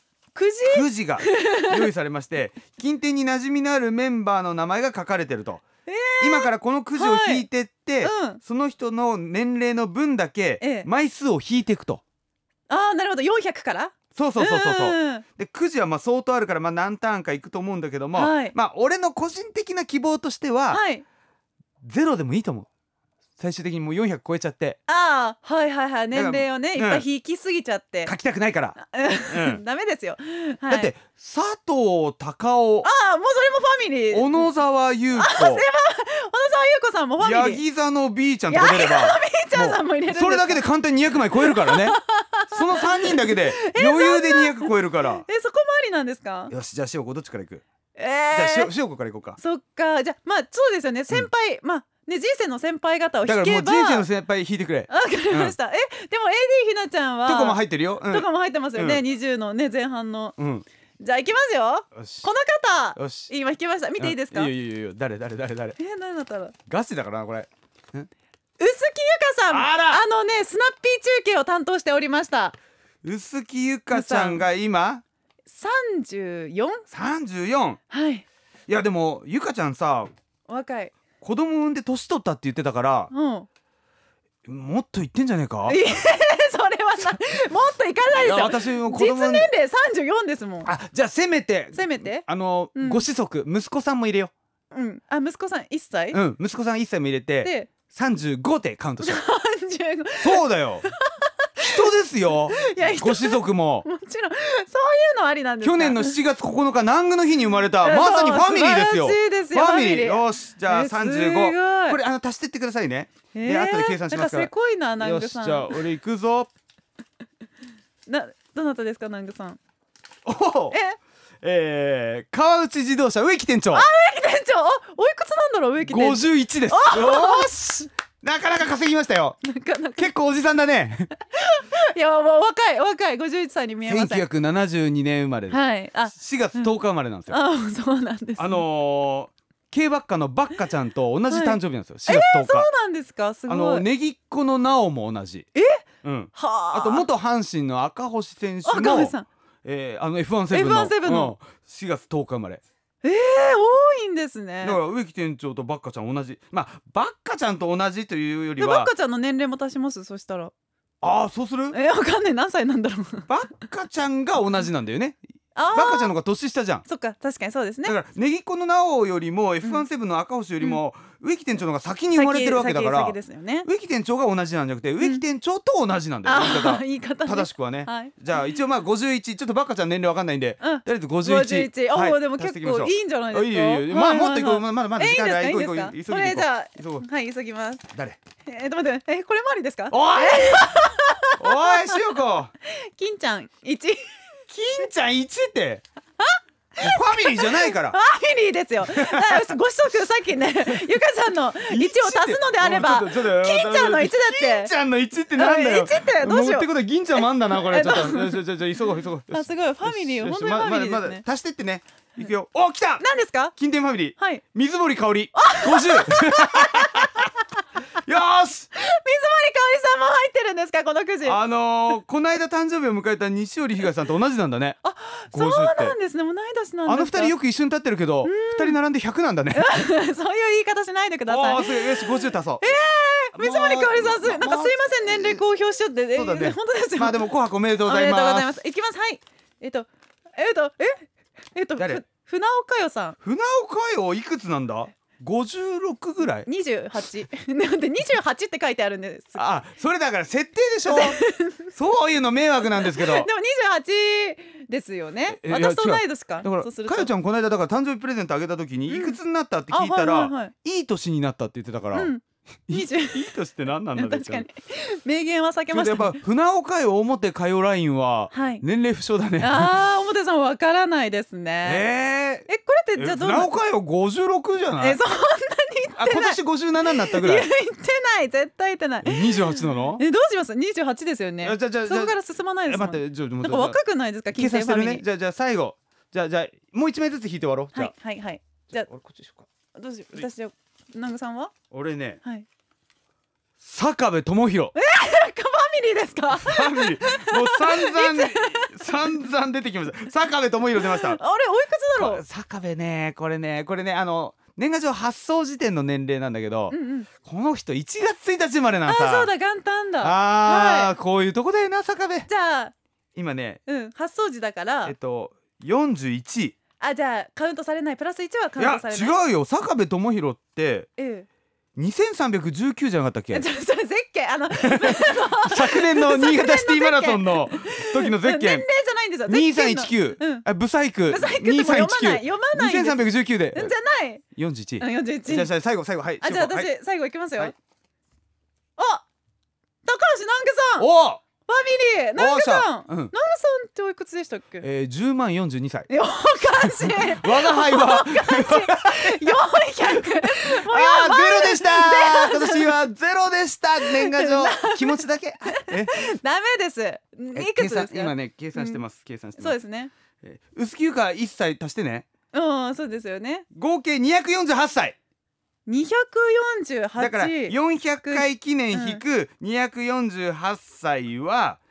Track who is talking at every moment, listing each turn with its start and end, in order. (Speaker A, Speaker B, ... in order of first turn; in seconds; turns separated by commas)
Speaker A: 0.3-1.9, Speaker B: 0.7-5.6, Speaker A: 5.9-7.5, Speaker B: 6.2-12.0, Speaker A: 8.0-8.4, Speaker A: 10.6-10.9, Speaker A: 12.7-15.2, Speaker B: 14.1-20.8, Speaker A: 18.1-18.6, Speaker A: 20.7-21.0, Speaker B: 21.8-22.7, Speaker B: 23.4-24.8, Speaker A: 24.9-28.1, Speaker B: 26.1-27.1, Speaker B: 28.1-28.8, Speaker A: 28.8-30.9, Speaker B: 29.3-29.6, Speaker B: 30.7-32.9, Speaker A: 32.8-34.5, Speaker B: 34.1-35.6, Speaker A: 35.1-37.6, Speaker B: 37.2-42.0, Speaker A: 38.5-40.6, Speaker A: 41.4-46.5, Speaker B: 42.5-45.2, Speaker B: 46.5-47.6, Speaker A: 48.0-48.7, Speaker B: 48.3-49.4, Speaker A: 49.4-54.1, Speaker B: 53.2-55.5, Speaker A: 54.9-60.4, Speaker B: 57.3-59.0, Speaker B: 60.4-60.7, Speaker A: 61.0-64.5, Speaker B: 62.0-62.3, Speaker B: 63.0-63.3, Speaker B: 64.0-65.8, Speaker A: 65.8-66.5, Speaker B: 66.7-68.1, Speaker A: 68.6-72.6, Speaker B: 69.5-70.0, Speaker B: 73.0-75.0, Speaker A: 73.9-74.5, Speaker A: 75.5-76.8, Speaker B: 76.9-77.8, Speaker A: 77.9-78.2, Speaker B: 78.7-80.1, Speaker A: 80.5-81.0, Speaker B: 81.2-83.1, Speaker A: 83.1-83.5, Speaker B: 84.5-85.8, Speaker A: 85.7-90.7, Speaker B: 88.1-89.5, Speaker B: 90.7-94.3, Speaker A: 91.7-93.0, Speaker A: 94.7-96.2, Speaker B: 96.1-99.2, Speaker A: 97.4-97.7, Speaker A: 99.0-101.8, Speaker B: 100.2-100.9, Speaker B: 101.6-103.9, Speaker A: 102.5-106.2, Speaker B: 105.6-116.5, Speaker A: 107.8-112.0, Speaker A: 113.3-115.8, Speaker A: 118.1-119.6, Speaker B: 120.3-120.8, Speaker A: 120.7-121.0, Speaker B: 121.4-123.9, Speaker A: 123.7-127.9, Speaker B: 125.8-129.4, Speaker A: 129.4-130.1, Speaker B: 130.0-131.1, Speaker A: 131.1-134.2, Speaker B: 133.9-137.4, Speaker A: 135.5-136.7, Speaker A: 137.3-138.7, Speaker B: 138.4-142.7, Speaker A: 141.3-143.8, Speaker B: 143.5-145.5, Speaker A: 145.6-147.1, Speaker B: 146.0-152.6, Speaker A: 148.7-149.3, Speaker A: 150.5-151.3, Speaker A: 153.0-154.8, Speaker B: 154.6-158.9, Speaker A: 158.6-160.5, Speaker B: 161.0-161.8, Speaker A: 161.7-163.3, Speaker B: 163.3-165.2, Speaker A: 165.6-166.1, Speaker B: 165.7-166.8, Speaker A: 166.8-168.0, Speaker B: 167.8-187.1, Speaker A: 172.2-173.7, Speaker A: 176.2-178.6, Speaker A: 180.6-187.9, Speaker B: 187.9-188.2, Speaker A: 188.4-192.0, Speaker B: 189.9-190.7, Speaker B: 191.4-192.5, Speaker A: 192.6-194.2, Speaker B: 194.5-195.8, Speaker A: 196.2-204.7, Speaker B: 196.8-198.0, Speaker B: 198.9-199.4, Speaker B: 201.7-217.3, Speaker A: 205.3-208.4, Speaker A: 209.3-211.2, Speaker A: 213.0-213.5, Speaker A: 214.2-214.4, Speaker A: 215.3-217.4, Speaker B: 218.0-218.7, Speaker A: 218.7-221.4, Speaker B: 221.2-224.8, Speaker A: 224.8-227.3, Speaker B: 225.3-225.9, Speaker B: 226.9-229.7, Speaker A: 228.2-228.8, Speaker A: 229.5-237.2, Speaker B: 231.3-232.7, Speaker B: 233.3-235.4, Speaker B: 236.2-238.5, Speaker A: 237.8-243.2, Speaker B: 241.8-242.0, Speaker B: 243.2-246.5, Speaker A: 246.4-249.4, Speaker B: 249.3-251.2, Speaker A: 250.9-251.7, Speaker B: 251.7-253.3, Speaker A: 252.7-257.1, Speaker B: 255.3-262.1, Speaker A: 258.9-259.2, Speaker A: 259.7-260.5, Speaker A: 261.9-263.3, Speaker B: 262.7-264.5, Speaker A: 263.9-266.2, Speaker B: 265.7-269.7, Speaker A: 268.3-268.6, Speaker A: 269.4-271.9, Speaker B: 271.6-275.0, Speaker A: 272.5-273.5, Speaker A: 274.8-285.0, Speaker B: 276.0-277.5, Speaker B: 279.0-280.0, Speaker B: 281.4-283.8, Speaker B: 284.3-287.9, Speaker A: 287.7-288.9, Speaker B: 288.8-289.5, Speaker A: 289.8-291.6, Speaker B: 291.7-292.2, Speaker B: 293.6-294.8, Speaker A: 294.7-299.1, Speaker B: 296.3-301.2, Speaker A: 300.8-302.2, Speaker B: 302.0-309.3, Speaker A: 306.7-307.1, Speaker A: 308.9-310.9, Speaker B: 310.0-312.3, Speaker A: 312.3-312.7, Speaker B: 313.2-313.6, Speaker A: 313.7-314.9, Speaker B: 314.9-316.6, Speaker A: 316.8-319.1, Speaker B: 318.6-320.9, Speaker A: 321.0-321.3, Speaker B: 321.8-323.5, Speaker A: 323.3-330.5, Speaker B: 324.6-328.7, Speaker B: 329.3-333.7, Speaker A: 331.1-334.2, Speaker B: 334.4-336.7, Speaker A: 334.8-335.5, Speaker A: 336.2-337.5, Speaker A: 338.8-339.1, Speaker A: 339.9-340.9, Speaker B: 340.8-341.2, Speaker A: 341.5-344.7, Speaker B: 342.2-343.1, Speaker B: 344.6-345.9, Speaker A: 345.9-352.7, Speaker B: 346.6-356.0, Speaker A: 353.8-358.8, Speaker B: 357.3-359.6, Speaker A: 359.4-359.9, Speaker B: 360.2-362.1, Speaker A: 362.3-363.4, Speaker B: 363.5-365.0, Speaker A: 365.7-369.0, Speaker B: 367.0-371.6